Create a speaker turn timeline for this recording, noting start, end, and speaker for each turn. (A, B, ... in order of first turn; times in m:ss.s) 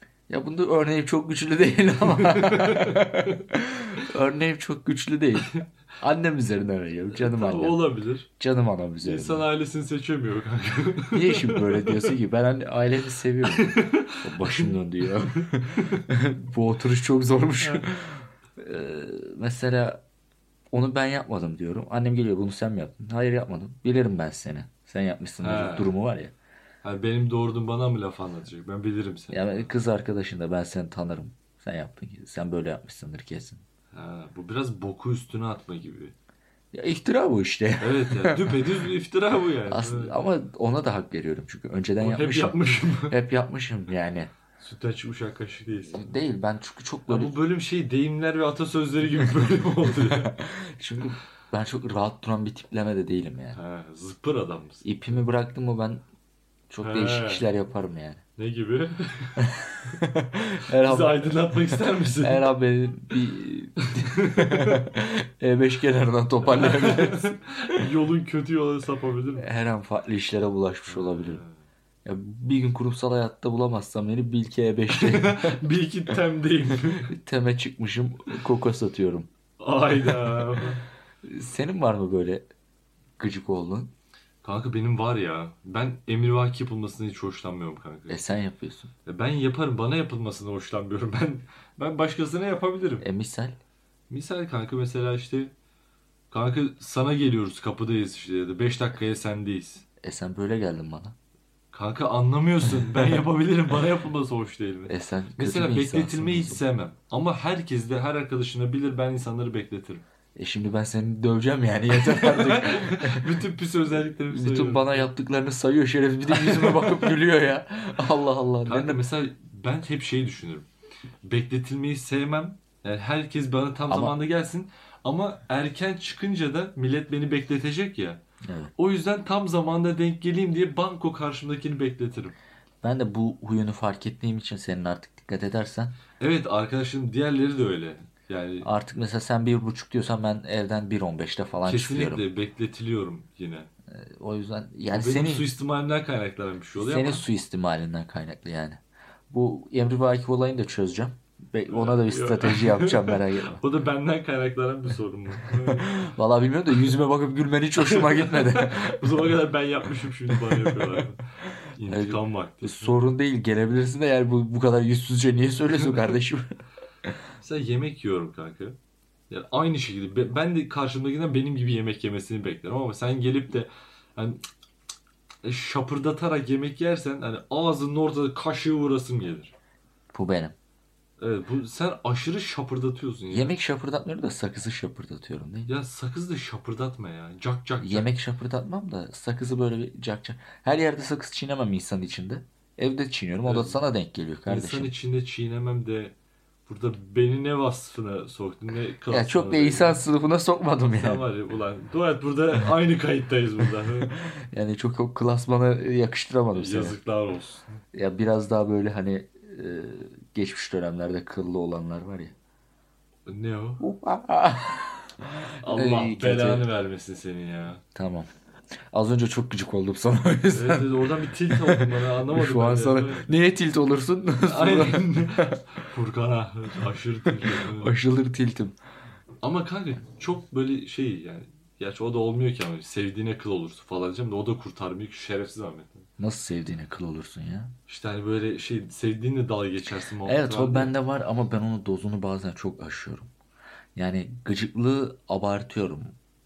0:00.3-0:09.5 A
0:02.1-0:03.4 B
0:07.1-0:08.3 B
0:09.0-0:12.1 B
0:11.1-0:20.0 A
0:13.6-0:14.7 B
0:15.7-0:16.0 B
0:17.6-0:17.9 B
0:20.7-0:26.3 A
0:25.4-0:25.9 B
0:26.8-0:29.7 B
0:29.3-0:33.6 A
0:33.9-0:36.1 B
0:36.7-0:38.8 A
0:37.8-0:40.2 B
0:39.7-0:44.3 A
0:42.0-0:43.2 B
0:44.6-0:46.1 B
0:45.9-0:47.3 A
0:47.1-0:50.3 B
0:49.9-0:53.6 A
0:53.5-0:54.8 B
0:54.8-0:56.0 A
0:56.7-0:58.2 A
0:56.8-0:57.5 B
0:58.4-0:59.5 B
0:59.4-1:07.8 A
1:00.8-1:02.5 B
1:03.8-1:04.8 B
1:06.4-1:09.5 B
1:09.4-1:11.4 A
1:10.9-1:11.6 B
1:12.0-1:15.6 A
1:14.9-1:17.1 B
1:17.1-1:19.3 A
1:19.6-1:20.8 B
1:20.0-1:20.6 A
1:21.2-1:22.5 A
1:23.2-1:23.9 A
1:24.4-1:28.2 B
1:28.1-1:28.9 A
1:29.0-1:33.0 B
1:33.0-1:33.6 A
1:34.1-1:35.5 B
1:36.3-1:39.8 B
1:40.0-1:41.1 A
1:41.7-1:50.0 B
1:42.9-1:43.2 A
1:44.9-1:46.6 A
1:50.4-1:53.4 A
1:52.0-1:55.1 B
1:54.3-1:59.0 A
1:56.3-1:57.0 B
1:58.6-2:00.7 B
2:01.2-2:08.2 B
2:03.9-2:04.2 A
2:08.4-2:08.7 A
2:08.8-2:12.4 B
2:12.8-2:16.0 A
2:16.2-2:18.7 B
2:18.6-2:22.2 A
2:21.6-2:23.7 B
2:23.9-2:25.5 A
2:24.9-2:27.2 B
2:26.8-2:33.6 A
2:31.7-2:36.0 B
2:35.6-2:39.3 A
2:37.8-2:43.0 B
2:40.3-2:41.0 A
2:41.9-2:46.5 A
2:47.4-2:48.8 B
2:49.3-2:54.4 B
2:55.4-2:59.5 B
3:00.1-3:00.5 A
3:01.2-3:03.5 B
3:03.3-3:05.7 A
3:05.7-3:08.1 B
3:07.8-3:14.9 A
3:13.4-3:13.8 B
3:14.5-3:16.1 B
3:16.6-3:20.0 B
3:19.1-3:21.2 A
3:20.9-3:24.1 B
3:24.2-3:27.0 A
3:26.5-3:27.8 B
3:27.9-3:32.3 A
3:33.3-3:33.8 B
3:33.8-3:36.7 A
3:35.6-3:37.8 B
3:37.9-3:38.3 A
3:38.9-3:45.6 A
3:40.5-3:43.3 B
3:44.4-3:47.9 B
3:47.4-3:48.8 A
3:49.4-3:56.1 B
3:56.2-3:57.7 A
3:57.9-4:00.9 B
4:00.2-4:03.3 A
4:03.9-4:06.2 A